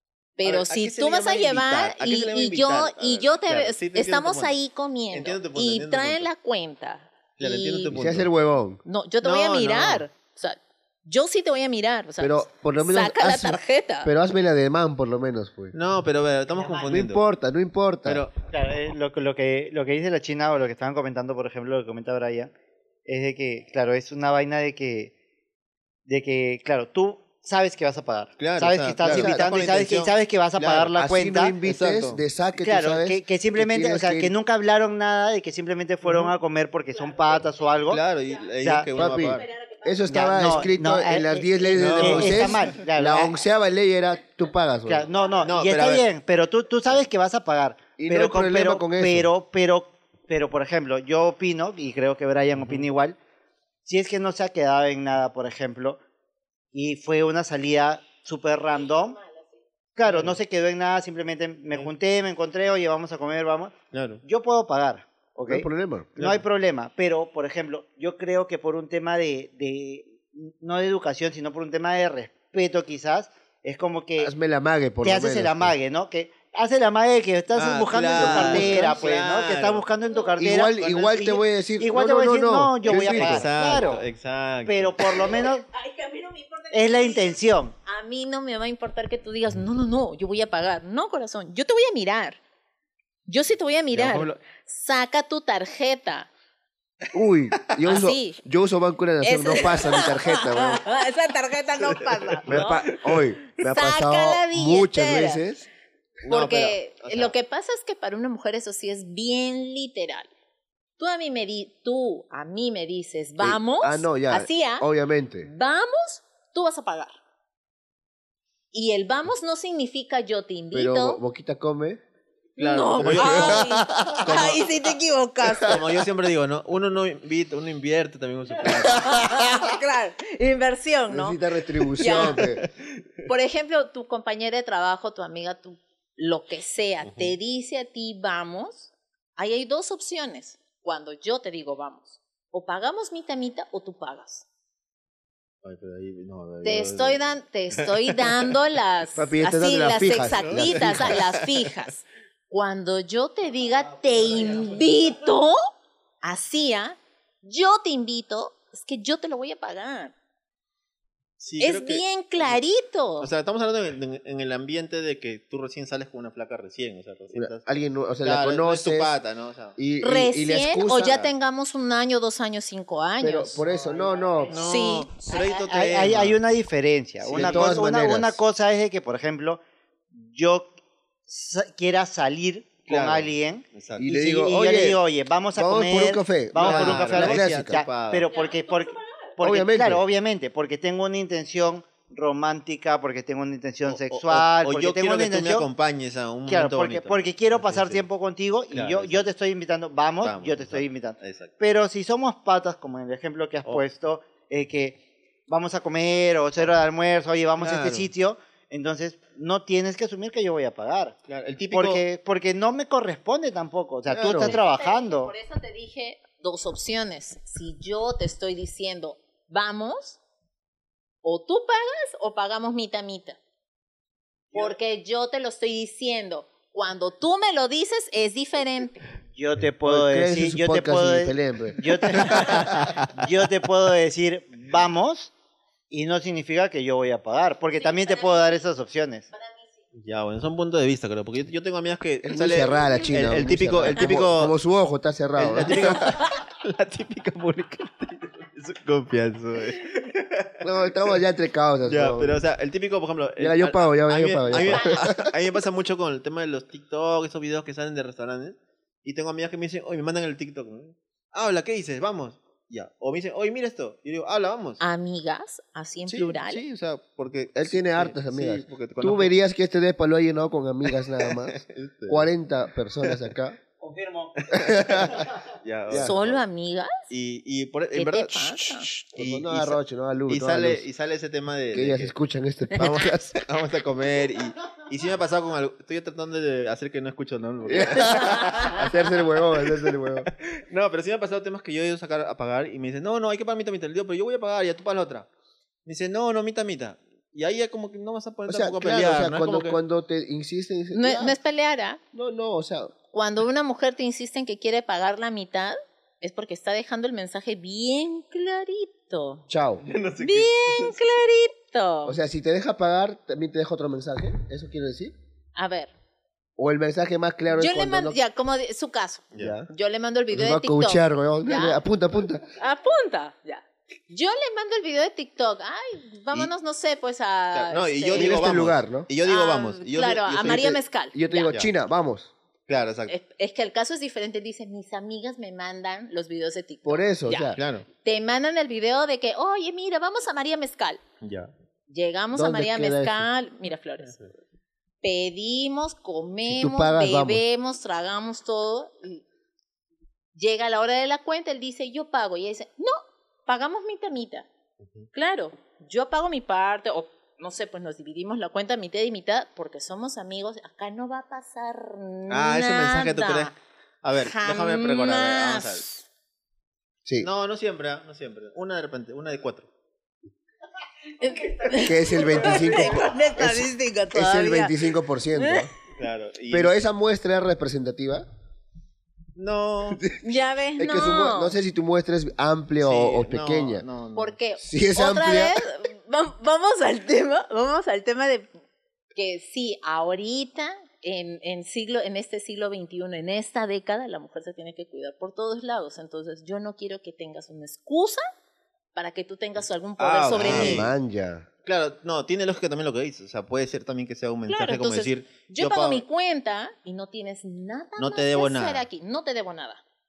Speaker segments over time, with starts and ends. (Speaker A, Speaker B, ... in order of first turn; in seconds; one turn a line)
Speaker A: 0.4-7.9
Speaker B: 0.4-4.6
Speaker B: 5.1-6.3
Speaker B: 7.4-8.3
Speaker C: 7.9-8.8
Speaker A: 8.8-14.1
Speaker B: 9.2-10.1
Speaker C: 12.2-15.7
Speaker B: 15.7-17.2
Speaker C: 16.8-18.2
Speaker B: 18.0-18.4
Speaker D: 18.5-22.5
Speaker D: 23.1-25.1
Speaker D: 26.1-31.6
Speaker B: 28.4-30.9
Speaker C: 29.0-29.5
Speaker C: 30.9-34.3
Speaker B: 31.6-32.2
Speaker D: 32.6-38.0
Speaker B: 36.0-36.4
Speaker B: 37.8-39.5
Speaker D: 38.6-38.9
Speaker C: 38.9-45.1
Speaker A: 39.1-40.0
Speaker D: 40.1-43.4
Speaker B: 41.7-42.8
Speaker D: 44.9-53.2
Speaker B: 45.4-46.0
Speaker C: 48.0-49.3
Speaker B: 52.6-52.9
Speaker D: 53.8-56.0
Speaker D: 56.7-59.2
Speaker A: 58.7-59.6
Speaker D: 60.0-74.3
Speaker B: 60.0-60.4
Speaker B: 63.9-64.2
Speaker C: 65.5-66.1
Speaker B: 66.2-66.4
Speaker C: 74.2-75.7
Speaker D: 75.0-84.0
Speaker B: 77.5-79.9
Speaker C: 78.1-79.0
Speaker C: 80.4-83.5
Speaker B: 80.8-81.2
Speaker B: 82.8-85.4
Speaker D: 84.6-85.6
Speaker A: 85.2-92.4
Speaker D: 86.7-87.7
Speaker A: 93.3-96.3
Speaker B: 93.9-94.4
Speaker C: 97.1-100.8
Speaker A: 97.8-98.4
Speaker A: 99.2-103.0
Speaker B: 101.8-102.7
Speaker C: 102.5-105.7
Speaker A: 103.6-105.4
Speaker B: 106.3-107.3
Speaker A: 106.3-110.3
Speaker A: 111.0-114.9
Speaker C: 113.4-115.5
Speaker A: 115.4-117.1
Speaker A: 118.7-121.2
Speaker C: 120.7-122.0
Speaker B: 122.6-124.9
Speaker A: 122.6-125.8
Speaker C: 123.0-124.3
Speaker B: 125.6-129.5
Speaker A: 128.8-131.4
Speaker C: 131.1-132.6
Speaker A: 132.0-132.4
Speaker B: 132.1-133.0
Speaker A: 133.2-144.4
Speaker B: 137.0-137.3
Speaker B: 145.6-148.5
Speaker A: 146.6-155.6
Speaker C: 149.1-151.2
Speaker B: 150.1-151.7
Speaker A: 156.2-160.1
Speaker B: 161.4-162.6
Speaker A: 161.6-163.3
Speaker B: 163.2-167.7
Speaker C: 167.3-169.1
Speaker B: 168.2-169.8
Speaker C: 169.8-171.2
Speaker A: 170.0-173.6
Speaker B: 171.0-171.3
Speaker C: 173.2-174.6
Speaker B: 174.5-176.4
Speaker A: 174.5-175.3
Speaker D: 175.3-179.6
Speaker B: 177.2-177.8
Speaker C: 177.3-178.4
Speaker D: 180.1-180.7
Speaker D: 181.3-195.7
Speaker B: 182.9-184.1
Speaker C: 184.0-185.0
Speaker C: 185.5-187.8
Speaker B: 186.6-188.3
Speaker A: 188.3-189.3
Speaker C: 189.4-190.0
Speaker B: 193.8-198.1
Speaker D: 196.5-211.2
Speaker B: 198.7-199.3
Speaker B: 200.2-201.5
Speaker B: 207.6-208.1
Speaker B: 211.3-212.0
Speaker D: 211.7-215.3
Speaker C: 214.1-214.6
Speaker A: 214.3-220.2
Speaker A: 221.2-223.4
Speaker A: 224.5-229.0
Speaker D: 229.3-235.3
Speaker C: 229.8-232.5
Speaker B: 232.3-233.0
Speaker D: 235.9-239.3
Speaker A: 237.7-238.6
Speaker A: 239.3-239.8
Speaker B: 239.9-244.6
Speaker C: 242.2-246.1
Speaker B: 245.3-250.9
Speaker C: 250.6-252.4
Speaker B: 251.8-264.8
Speaker C: 253.4-255.3
Speaker A: 254.5-255.1
Speaker A: 264.8-266.6
Speaker B: 266.1-269.3
Speaker C: 267.6-273.6
Speaker B: 271.0-272.3
Speaker D: 273.8-274.5
Speaker B: 274.4-276.4
Speaker C: 274.5-275.2
Speaker C: 275.9-276.1
Speaker A: 276.0-277.1
Speaker B: 277.1-282.1
Speaker A: 277.9-278.9
Speaker C: 279.1-280.8
Speaker C: 281.7-283.4
Speaker B: 282.7-295.3
Speaker C: 287.6-290.3
Speaker B: 295.8-299.8
Speaker C: 298.5-301.4
Speaker A: 300.9-302.0
Speaker C: 302.1-302.9
Speaker A: 303.1-309.4
Speaker C: 309.5-309.9
Speaker B: 309.8-311.0
Speaker A: 310.2-312.2
Speaker C: 312.0-315.1
Speaker A: 315.6-315.9
Speaker C: 316.6-318.2
Speaker A: 317.5-321.8
Speaker B: 319.3-319.6
Speaker C: 319.4-319.7
Speaker C: 320.3-322.5
Speaker A: 322.6-328.6
Speaker B: 327.5-330.8
Speaker C: 328.1-329.1
Speaker A: 329.2-331.5
Speaker C: 330.4-332.3
Speaker B: 332.7-333.1
Speaker A: 333.1-341.0
Speaker C: 336.8-337.6
Speaker B: 337.5-337.9
Speaker B: 341.2-341.5
Speaker A: 341.9-344.2
Speaker C: 342.3-343.3
Speaker A: 345.0-349.2
Speaker C: 346.4-347.4
Speaker A: 350.3-354.5
Speaker B: 354.8-355.1
Speaker A: 355.1-363.5
Speaker B: 362.3-365.9
Speaker A: 364.1-366.0
Speaker B: 367.2-369.7
Speaker A: 371.2-375.7
Speaker C: 371.7-375.7
Speaker B: 375.9-376.8
Speaker C: 376.5-378.2
Speaker B: 379.3-380.1
Speaker A: 380.2-381.6
Speaker C: 380.8-383.8
Speaker B: 382.8-384.4
Speaker A: 384.1-388.5
Speaker C: 384.6-385.6
Speaker A: 389.1-398.2
Speaker A: 398.9-400.9
Speaker B: 400.0-400.9
Speaker C: 400.4-401.5
Speaker B: 401.6-406.0
Speaker A: 404.5-409.8
Speaker B: 408.0-408.9